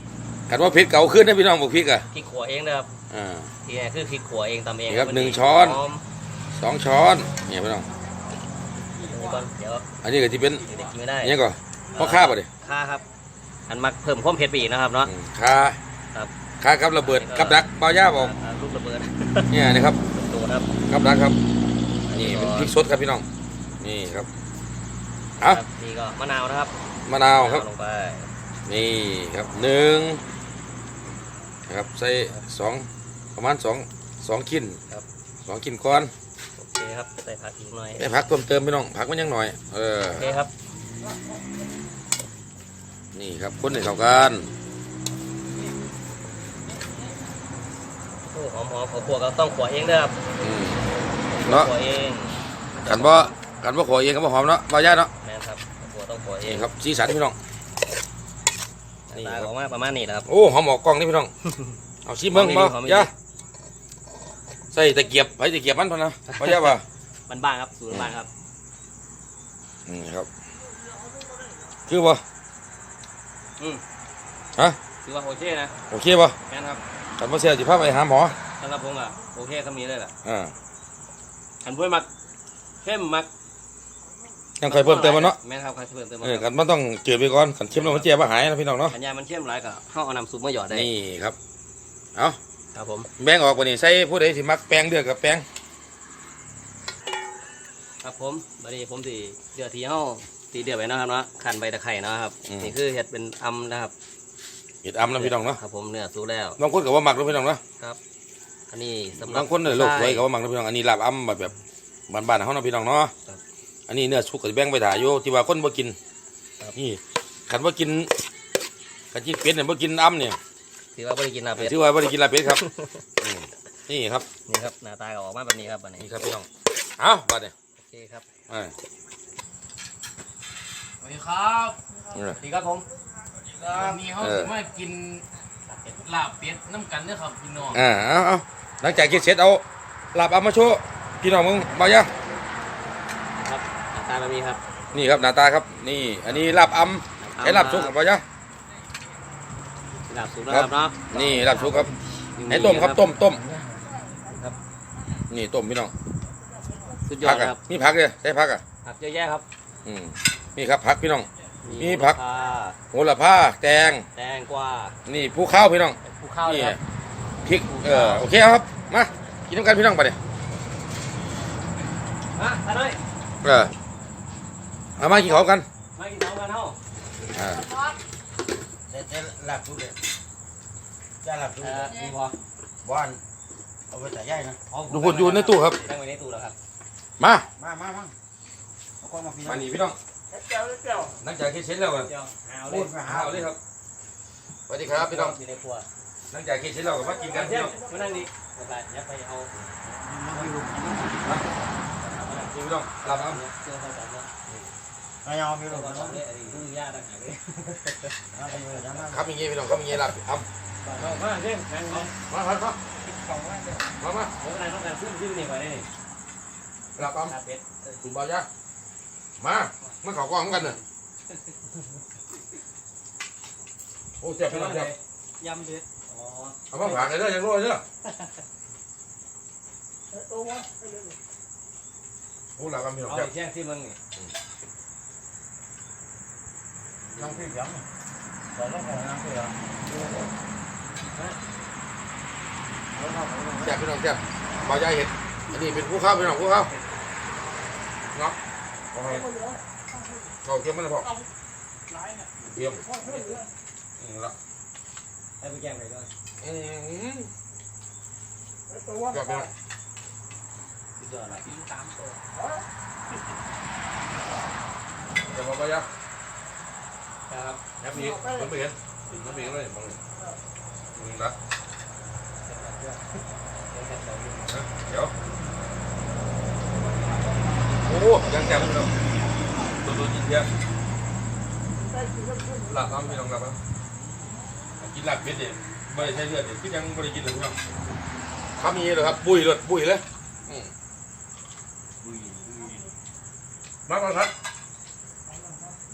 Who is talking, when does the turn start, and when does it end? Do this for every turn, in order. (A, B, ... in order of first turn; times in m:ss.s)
0:00.5-0:02.1 A
0:02.1-0:02.9 B
0:03.1-0:03.5 A
0:03.6-0:06.0 B
0:04.9-0:05.8 A
0:06.5-0:07.9 A
0:09.0-0:09.8 B
0:10.0-0:12.5 A
0:10.6-0:11.4 B
0:11.9-0:13.0 B
0:13.7-0:15.1 B
0:15.0-0:15.8 A
0:16.6-0:18.3 A
0:17.0-0:19.5 B
0:19.5-0:20.0 A
0:20.1-0:20.7 B
0:20.9-0:21.4 A
0:22.1-0:22.7 B
0:22.1-0:23.2 A
0:23.8-0:24.3 A
0:25.4-0:26.8 B
0:27.0-0:27.6 A
0:27.3-0:28.3 B
0:28.6-0:30.2 A
0:31.7-0:34.8 A
0:35.4-0:36.1 A
0:36.6-0:38.0 B
0:38.0-0:40.2 A
0:40.1-0:40.5 B
0:43.1-0:44.5 A
0:48.2-0:50.2 B
0:50.4-0:50.8 A
0:51.3-0:53.3 B
0:51.4-0:51.7 A
0:52.9-0:55.1 A
0:55.2-0:56.7 B
0:56.4-0:57.4 A
0:59.1-1:00.3 B
0:59.1-0:59.5 A
1:00.2-1:01.3 A
1:02.0-1:03.1 A
1:02.3-1:03.1 B
1:04.7-1:06.8 A
1:06.3-1:06.7 B
1:07.3-1:08.3 B
1:09.8-1:10.3 A
1:11.9-1:12.2 A
1:15.0-1:15.7 B
1:15.9-1:16.4 A
1:16.5-1:16.8 B
1:17.2-1:18.4 A
1:18.6-1:20.1 B
1:20.2-1:20.5 A
1:21.6-1:22.1 B
1:22.8-1:23.3 B
1:24.6-1:25.4 A
1:24.6-1:26.5 B
1:26.2-1:28.9 A
1:27.7-1:28.1 B
1:28.9-1:30.9 B
1:30.7-1:31.4 A
1:32.7-1:33.1 B
1:33.2-1:35.4 A
1:38.0-1:43.9 B
1:42.4-1:42.8 A
1:44.8-1:45.6 A
1:45.1-1:46.6 B
1:46.6-1:47.6 A
1:48.7-1:50.2 B
1:49.2-1:51.5 A
1:52.1-1:53.1 A
1:53.9-1:56.0 A
1:56.8-1:58.1 A
1:59.1-2:00.4 A
2:00.9-2:01.8 B
2:01.6-2:02.6 A
2:02.4-2:03.0 B
2:03.2-2:04.3 A
2:04.5-2:06.1 B
2:06.0-2:06.5 A
2:07.0-2:07.5 A
2:07.8-2:08.3 B
2:08.5-2:08.7 A
2:11.0-2:11.8 C
2:12.1-2:12.4 A
2:12.3-2:12.8 B
2:13.5-2:15.2 C
2:13.7-2:14.0 B
2:14.1-2:14.5 A
2:15.7-2:16.1 B
2:16.0-2:17.8 C
2:17.7-2:19.6 A
2:20.1-2:22.1 A
2:23.4-2:24.6 B
2:24.9-2:28.2 A
2:27.2-2:28.0 B
2:30.1-2:33.1 B
2:30.5-2:31.9 A
2:32.5-2:33.4 A
2:33.2-2:33.6 D
2:35.3-2:35.9 A
2:37.1-2:37.6 B
2:37.2-2:38.6 A
2:38.8-2:39.4 B
2:39.8-2:42.2 A
2:41.6-2:42.8 B
2:42.9-2:44.1 A
2:44.0-2:45.0 B
2:45.0-2:46.8 A
2:46.0-2:46.8 B
2:47.4-2:50.2 A
2:47.6-2:48.3 B
2:52.3-2:53.0 B
2:53.4-2:53.7 A
2:55.0-2:55.6 A
2:55.0-2:55.4 B
2:55.9-2:56.8 B
2:57.3-2:57.7 A
2:58.9-3:00.0 D
3:01.2-3:02.1 D
3:01.6-3:02.4 B
3:02.8-3:03.2 D
3:03.9-3:04.6 D
3:04.7-3:06.5 B
3:04.9-3:05.8 A
3:07.2-3:07.5 A
3:07.6-3:08.1 D
3:09.0-3:09.6 D
3:09.4-3:10.0 A
3:11.1-3:12.1 A
3:12.0-3:12.9 B
3:12.7-3:13.6 A
3:12.7-3:13.5 D
3:14.7-3:15.3 A
3:14.8-3:15.9 B
3:16.3-3:17.8 A
3:17.3-3:19.5 B
3:19.9-3:21.0 D
3:20.2-3:21.1 B
3:22.0-3:24.3 B
3:22.4-3:23.4 A
3:25.2-3:26.2 D
3:25.6-3:28.2 B
3:28.3-3:29.2 D
3:29.0-3:30.5 A
3:30.8-3:32.1 B
3:32.3-3:32.8 A
3:34.0-3:34.3 A
3:34.4-3:35.9 B
3:37.0-3:37.3 A
3:37.0-3:38.0 B
3:38.0-3:38.5 A
3:39.4-3:40.8 A
3:44.2-3:44.9 A
3:44.4-3:47.1 B
3:46.7-3:47.8 A
3:52.6-3:53.3 A
3:53.1-3:54.0 B
3:57.1-3:57.5 B
3:57.2-3:57.8 D
3:58.5-3:59.7 D
4:02.9-4:03.7 D
4:03.6-4:06.7 A
4:08.9-4:09.3 A
4:10.4-4:11.1 A
4:12.4-4:12.8 A
4:12.9-4:13.5 B
4:14.0-4:14.3 A
4:15.4-4:16.1 B
4:16.4-4:17.3 A
4:19.0-4:19.5 A
4:21.0-4:22.2 B
4:25.3-4:25.9 A
4:27.3-4:27.6 B
4:27.8-4:30.0 A
4:30.9-4:31.4 A
4:32.4-4:34.6 B
4:34.5-4:35.1 A
4:37.8-4:38.9 A
4:39.7-4:40.5 A
4:42.6-4:43.6 A
4:44.8-4:47.6 A
4:48.6-4:50.7 A
4:52.0-4:52.9 C
4:53.9-4:54.3 A